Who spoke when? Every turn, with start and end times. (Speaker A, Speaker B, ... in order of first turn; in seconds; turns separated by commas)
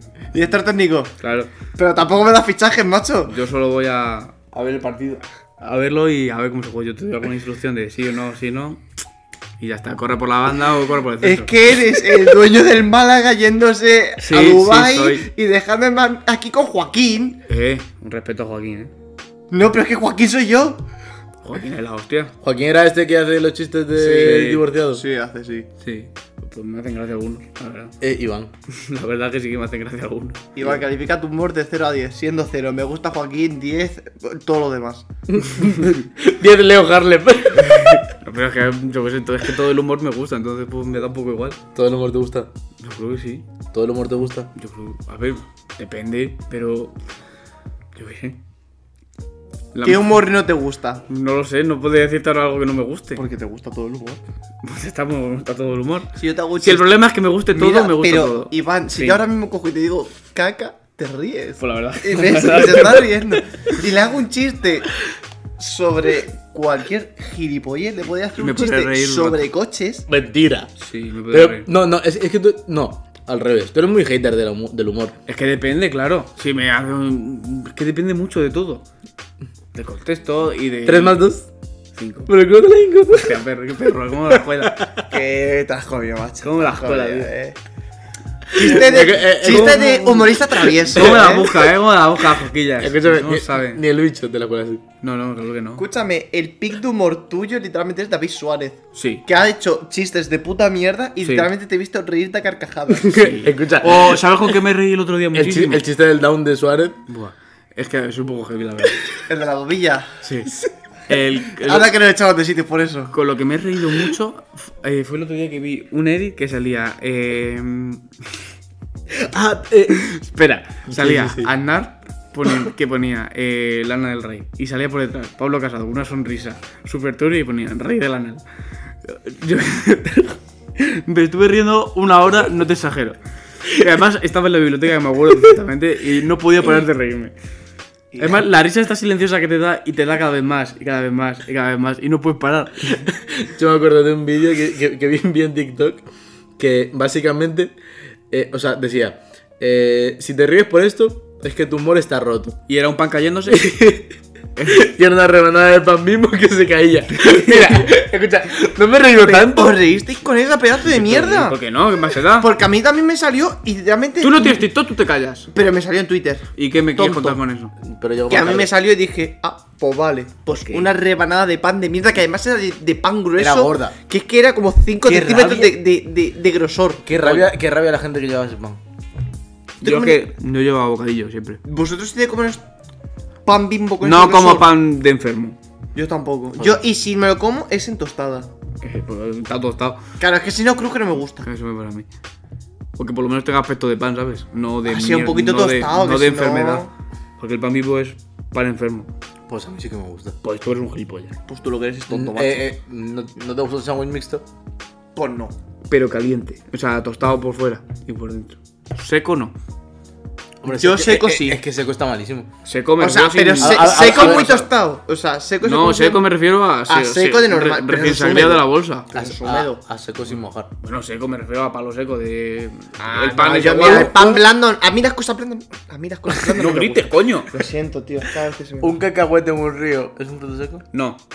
Speaker A: 0.3-1.1, Speaker B: 1.2-1.5, Speaker A: 1.7-3.3, Speaker B: 3.3-8.8, Speaker B: 9.6-11.5, Speaker A: 11.2-17.4, Speaker B: 14.2-15.3, Speaker B: 17.5-18.9, Speaker A: 19.5-20.8, Speaker B: 21.4-22.3, Speaker C: 22.4-25.0, Speaker A: 24.0-25.7, Speaker B: 24.0-24.6, Speaker B: 25.8-27.9, Speaker C: 28.0-28.5, Speaker B: 28.8-30.4, Speaker A: 30.5-35.0, Speaker C: 35.3-38.0, Speaker B: 38.0-41.6, Speaker C: 41.7-42.5, Speaker B: 42.8-43.5, Speaker C: 43.7-44.5, Speaker B: 44.5-46.9, Speaker B: 47.9-48.4, Speaker B: 49.7-50.1, Speaker A: 49.8-51.0, Speaker B: 51.1-53.2, Speaker A: 53.1-54.2, Speaker B: 54.6-59.2, Speaker A: 56.1-57.0, Speaker A: 57.5-64.9, Speaker B: 61.6-63.1, Speaker A: 65.6-70.0, Speaker B: 68.4-69.5, Speaker C: 70.1-70.7, Speaker B: 70.8-71.7, Speaker C: 71.3-75.1, Speaker B: 75.2-78.8, Speaker B: 79.7-81.2, Speaker C: 80.8-81.5, Speaker B: 81.9-82.3, Speaker C: 82.3-83.4, Speaker B: 83.1-84.8, Speaker C: 84.3-85.0, Speaker A: 85.1-87.5, Speaker B: 86.4-87.3, Speaker A: 88.5-91.5, Speaker C: 88.5-91.5, Speaker B: 90.8-93.8, Speaker C: 92.8-94.8, Speaker B: 95.0-95.8, Speaker A: 95.8-103.3, Speaker B: 98.9-99.2, Speaker B: 101.2-101.5, Speaker C: 103.1-104.2, Speaker B: 103.1-105.8, Speaker C: 105.3-107.0, Speaker B: 107.1-109.2, Speaker A: 109.3-110.1, Speaker B: 110.2-111.9, Speaker A: 111.5-113.1, Speaker B: 113.1-118.1, Speaker C: 119.1-120.0, Speaker B: 120.0-128.4, Speaker C: 120.9-121.5, Speaker B: 129.0-137.3, Speaker A: 138.1-138.4, Speaker B: 138.2-143.1, Speaker C: 143.1-146.0, Speaker C: 146.6-147.7, Speaker C: 148.3-152.6, Speaker B: 152.7-153.7, Speaker C: 153.5-154.1, Speaker B: 154.6-154.8, Speaker C: 154.7-159.8, Speaker A: 159.2-161.6, Speaker B: 160.8-162.5, Speaker A: 162.4-164.6, Speaker B: 164.2-165.5, Speaker A: 165.5-167.4, Speaker B: 166.6-167.7, Speaker C: 167.8-168.7, Speaker A: 168.3-177.4, Speaker C: 170.5-170.9, Speaker C: 173.4-173.9, Speaker C: 175.0-175.8, Speaker C: 177.1-178.8, Speaker B: 179.8-181.6, Speaker A: 179.8-180.2, Speaker A: 181.6-182.6, Speaker A: 183.4-184.7, Speaker B: 184.0-185.6, Speaker A: 185.9-188.5, Speaker B: 188.8-190.0, Speaker A: 190.2-191.4, Speaker B: 191.4-192.1, Speaker B: 192.9-196.9, Speaker A: 194.8-196.9, Speaker B: 197.4-199.1, Speaker C: 199.5-200.3, Speaker B: 200.4-201.4, Speaker A: 201.5-202.7, Speaker C: 202.1-204.4, Speaker A: 205.2-205.6, Speaker B: 205.9-209.5, Speaker C: 210.6-212.5, Speaker A: 210.7-211.6, Speaker B: 212.6-214.6, Speaker A: 213.0-216.2, Speaker C: 213.6-214.7, Speaker B: 215.6-219.2, Speaker A: 216.9-219.8, Speaker C: 219.1-220.7, Speaker B: 220.7-224.2, Speaker A: 223.0-228.9, Speaker C: 223.5-224.4, Speaker B: 226.6-227.5, Speaker C: 228.8-230.8, Speaker B: 230.9-231.2